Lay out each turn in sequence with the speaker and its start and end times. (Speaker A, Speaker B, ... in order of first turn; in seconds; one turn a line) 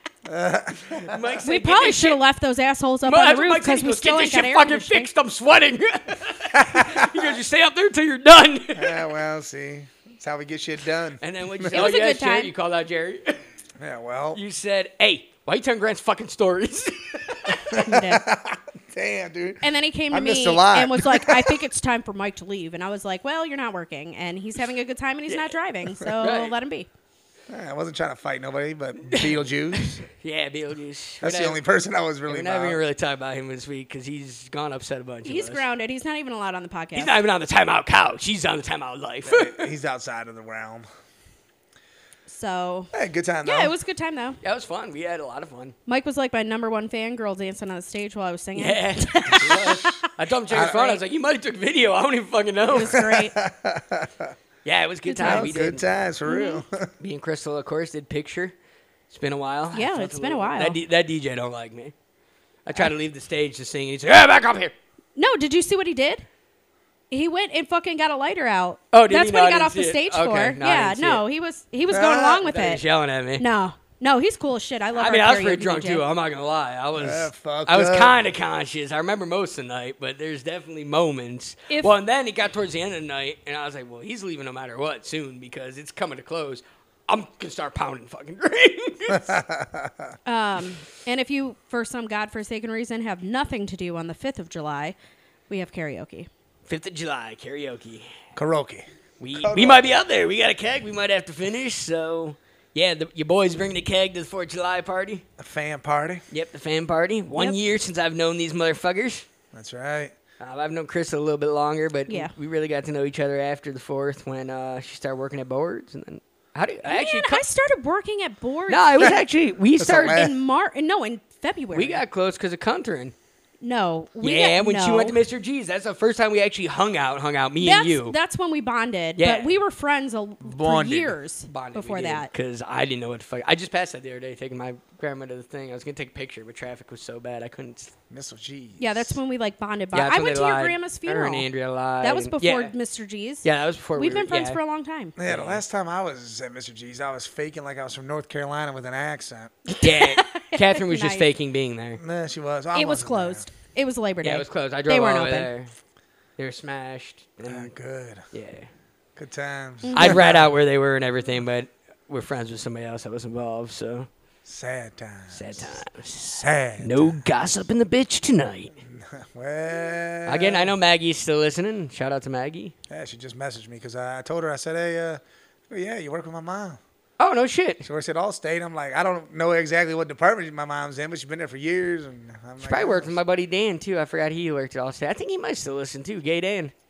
Speaker A: 0.2-1.3
Speaker B: 0.9-2.2
Speaker C: 1.4-5.1
Speaker B: 3.0-9.1
Speaker A: 6.6-7.1
Speaker A: 8.7-11.8
Speaker B: 11.2-13.4
Speaker C: 11.7-12.5
Speaker A: 13.8-14.4
Speaker B: 14.3-17.7
Speaker A: 17.7-21.6
Speaker C: 17.7-18.3
Speaker C: 19.6-26.9
Speaker B: 25.3-25.6
Speaker B: 26.2-26.6
Speaker A: 27.5-30.0
Speaker B: 29.1-31.6
Speaker A: 31.2-32.8
Speaker B: 32.3-35.6
Speaker C: 35.2-37.2
Speaker B: 37.0-39.6
Speaker A: 39.2-40.9
Speaker C: 42.3-42.9
Speaker A: 42.9-43.8
Speaker C: 43.4-44.4
Speaker B: 44.4-45.8
Speaker C: 45.9-50.9
Speaker B: 48.6-53.1
Speaker A: 50.5-51.0
Speaker C: 52.7-53.4
Speaker A: 52.9-54.4
Speaker B: 54.6-55.8
Speaker C: 55.1-55.6
Speaker A: 55.2-56.9
Speaker C: 56.3-56.6
Speaker B: 57.0-58.5
Speaker B: 59.1-61.9
Speaker C: 59.7-60.8
Speaker B: 62.7-64.7
Speaker C: 65.2-66.2
Speaker C: 67.1-72.8
Speaker B: 68.9-71.2
Speaker A: 71.9-72.5
Speaker B: 72.4-73.5
Speaker C: 73.4-76.0
Speaker B: 75.0-89.4
Speaker A: 77.0-78.2
Speaker C: 81.7-81.9
Speaker A: 89.1-90.1
Speaker C: 90.3-95.0
Speaker C: 95.5-96.3
Speaker B: 96.7-98.1
Speaker A: 98.3-99.9
Speaker B: 99.2-105.2
Speaker A: 105.4-106.2
Speaker B: 106.3-109.3
Speaker A: 109.5-110.2
Speaker B: 110.4-117.4
Speaker C: 112.1-112.3
Speaker C: 116.8-119.2
Speaker B: 118.7-120.3
Speaker A: 119.8-120.4
Speaker C: 120.0-122.0
Speaker B: 121.7-123.1
Speaker C: 123.6-125.2
Speaker B: 124.2-128.2
Speaker C: 127.6-132.3
Speaker B: 129.2-129.6
Speaker A: 130.4-131.2
Speaker B: 131.5-137.9
Speaker A: 138.1-139.2
Speaker C: 138.8-141.5
Speaker B: 139.9-142.7
Speaker C: 142.0-145.2
Speaker B: 143.4-144.6
Speaker A: 145.2-149.5
Speaker B: 145.2-145.6
Speaker C: 149.7-151.3
Speaker B: 149.8-152.0
Speaker A: 152.0-153.5
Speaker C: 152.7-155.5
Speaker B: 154.2-155.7
Speaker B: 156.4-157.7
Speaker A: 157.4-158.2
Speaker B: 158.3-158.7
Speaker A: 159.2-160.5
Speaker C: 159.8-160.2
Speaker B: 159.9-164.1
Speaker A: 164.4-167.2
Speaker B: 165.3-168.7
Speaker A: 168.8-170.8
Speaker B: 170.3-172.8
Speaker A: 172.9-176.8
Speaker B: 177.2-177.9
Speaker A: 177.8-183.2
Speaker B: 182.6-186.7